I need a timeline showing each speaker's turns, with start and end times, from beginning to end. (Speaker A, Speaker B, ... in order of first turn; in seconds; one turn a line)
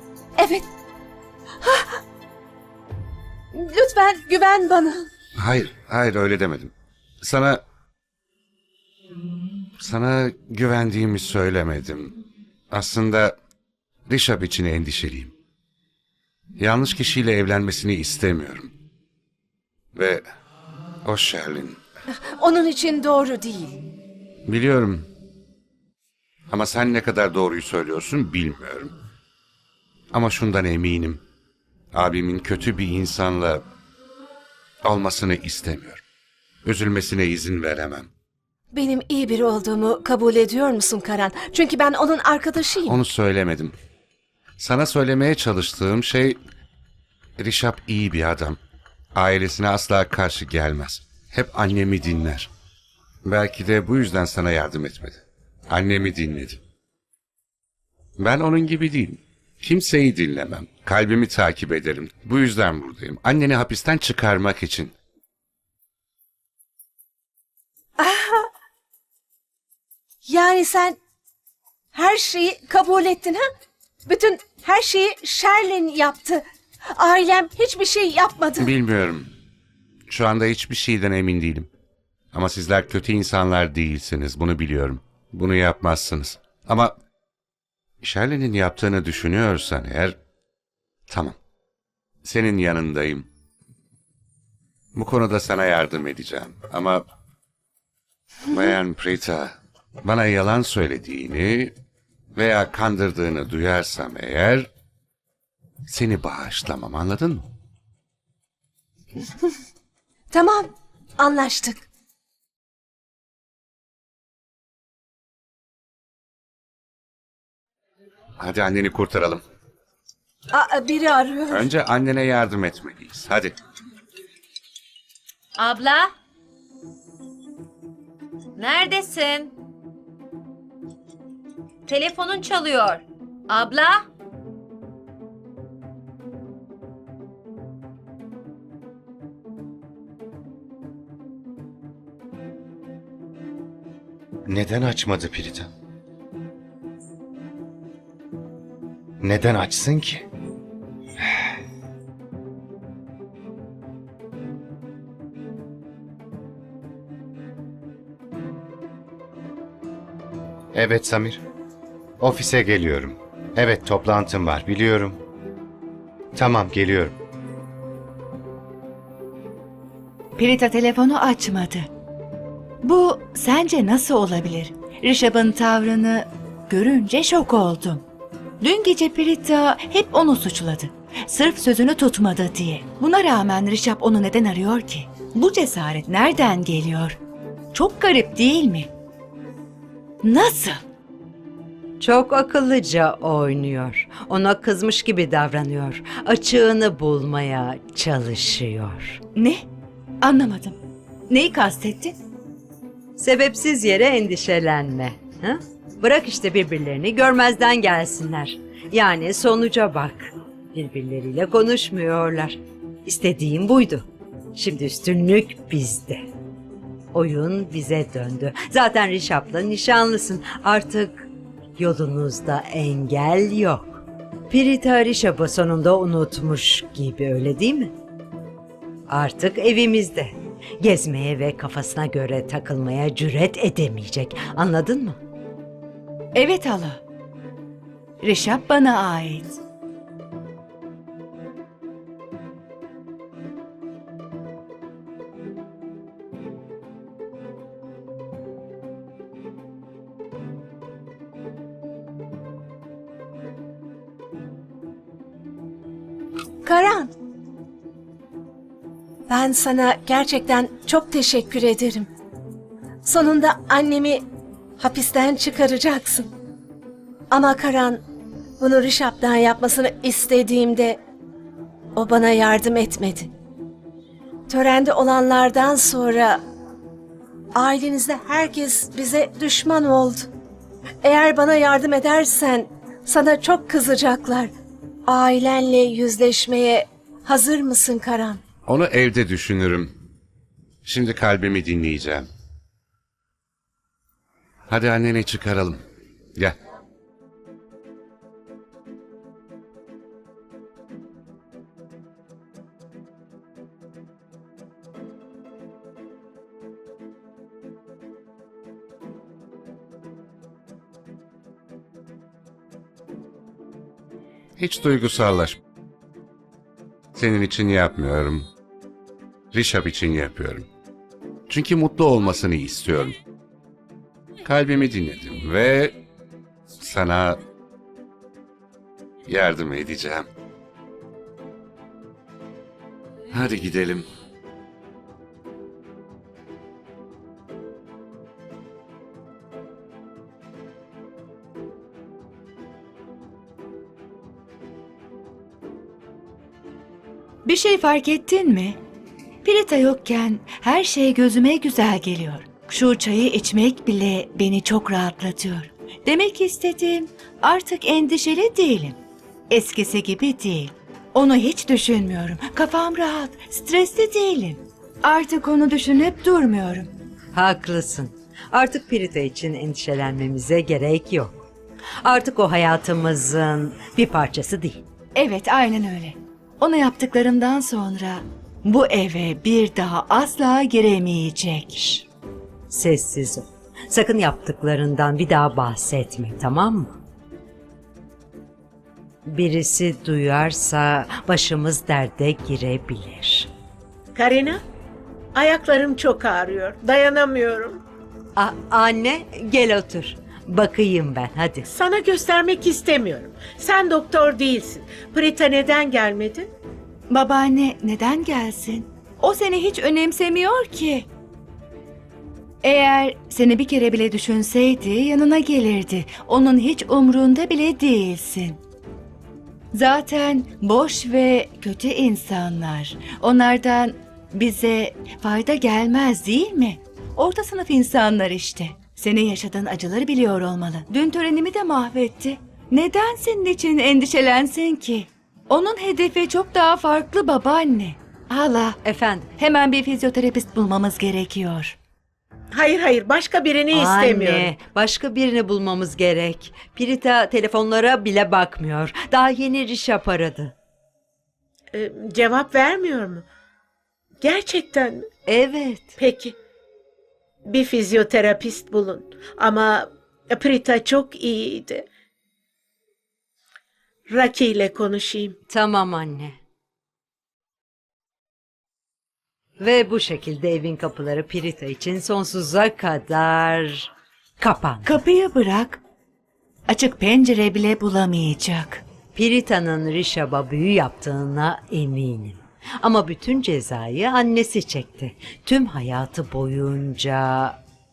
Speaker A: 0.4-0.7
Speaker A: 1.6-1.9
Speaker A: 3.5-5.0
Speaker B: 5.4-7.6
Speaker B: 9.8-12.2
Speaker B: 12.7-13.4
Speaker B: 14.1-15.3
Speaker B: 16.6-18.7
Speaker B: 19.9-20.2
Speaker B: 21.0-21.8
Speaker A: 22.4-23.8
Speaker B: 24.5-25.1
Speaker B: 26.5-28.9
Speaker B: 30.1-31.2
Speaker B: 31.9-33.6
Speaker B: 34.8-36.0
Speaker B: 36.6-38.1
Speaker A: 38.7-43.0
Speaker B: 42.9-43.7
Speaker B: 44.6-46.4
Speaker B: 47.4-48.6
Speaker B: 49.1-52.5
Speaker B: 53.2-56.6
Speaker B: 58.2-64.9
Speaker A: 68.0-68.5
Speaker A: 70.3-71.0
Speaker A: 72.0-73.4
Speaker A: 74.1-76.4
Speaker A: 77.0-78.7
Speaker B: 78.6-79.3
Speaker B: 80.1-81.7
Speaker B: 82.3-87.0
Speaker B: 88.0-90.2
Speaker B: 91.1-91.4
Speaker B: 92.2-93.3
Speaker B: 94.9-97.0
Speaker B: 98.5-99.5
Speaker B: 100.0-101.7
Speaker B: 102.3-104.7
Speaker B: 105.9-107.4
Speaker A: 110.3-110.7
Speaker A: 111.2-111.8
Speaker B: 118.4-119.4
Speaker A: 120.5-121.7
Speaker B: 121.5-123.6
Speaker C: 125.6-126.1
Speaker C: 128.6-129.5
Speaker C: 131.9-134.1
Speaker D: 144.5-145.7
Speaker D: 149.2-150.2
Speaker D: 160.7-161.4
Speaker D: 162.2-165.2
Speaker D: 166.3-167.1
Speaker E: 170.4-171.9
Speaker E: 172.8-178.0
Speaker E: 178.6-187.2
Speaker E: 187.7-188.9
Speaker E: 190.2-190.8
Speaker F: 192.0-199.2
Speaker E: 199.4-199.6
Speaker E: 200.2-200.8
Speaker E: 201.3-202.2
Speaker F: 203.2-216.2
Speaker F: 217.1-227.9
Speaker F: 229.1-235.2
Speaker E: 236.3-237.0
Speaker E: 238.2-239.6
Speaker A: 256.6-257.1
Speaker A: 259.3-262.1
Speaker A: 263.1-264.2
Speaker A: 264.8-266.3
Speaker A: 267.3-268.0
Speaker A: 268.6-271.0
Speaker A: 272.0-273.3
Speaker A: 274.5-276.4
Speaker A: 277.6-280.3
Speaker A: 281.0-284.5
Speaker A: 285.1-288.4
Speaker B: 288.7-289.9
Speaker B: 290.9-292.3
Speaker B: 294.7-295.8
Speaker B: 314.6-315.6
Speaker B: 317.1-318.5
Speaker B: 319.5-320.7
Speaker B: 321.5-323.2
Speaker B: 324.4-326.0
Speaker B: 326.8-327.4
Speaker B: 329.3-330.3
Speaker B: 333.3-334.1
Speaker E: 347.4-348.8
Speaker E: 349.4-359.0
Speaker E: 359.5-366.9
Speaker F: 367.3-371.4
Speaker F: 372.0-374.8
Speaker E: 375.1-381.8
Speaker F: 382.7-387.0
Speaker F: 389.3-393.5
Speaker G: 394.1-394.6
Speaker G: 395.3-397.8
Speaker F: 398.4-401.7
Speaker G: 401.7-406.5
Speaker E: 407.1-411.1
Speaker E: 412.6-418.6
Speaker E: 419.7-438.8
Speaker F: 438.8-439.3
Speaker E: 439.4-441.8
Speaker G: 442.5-444.5
Speaker F: 443.7-450.5
Speaker G: 451.7-453.2
Speaker G: 454.2-455.1
Speaker F: 455.3-456.0
Speaker G: 456.0-456.4
Speaker G: 457.5-461.9
Speaker G: 464.1-465.4
Speaker F: 465.5-466.4
Speaker F: 469.6-475.0
Speaker E: 474.9-475.8
Speaker E: 476.7-478.8
Speaker F: 479.1-487.6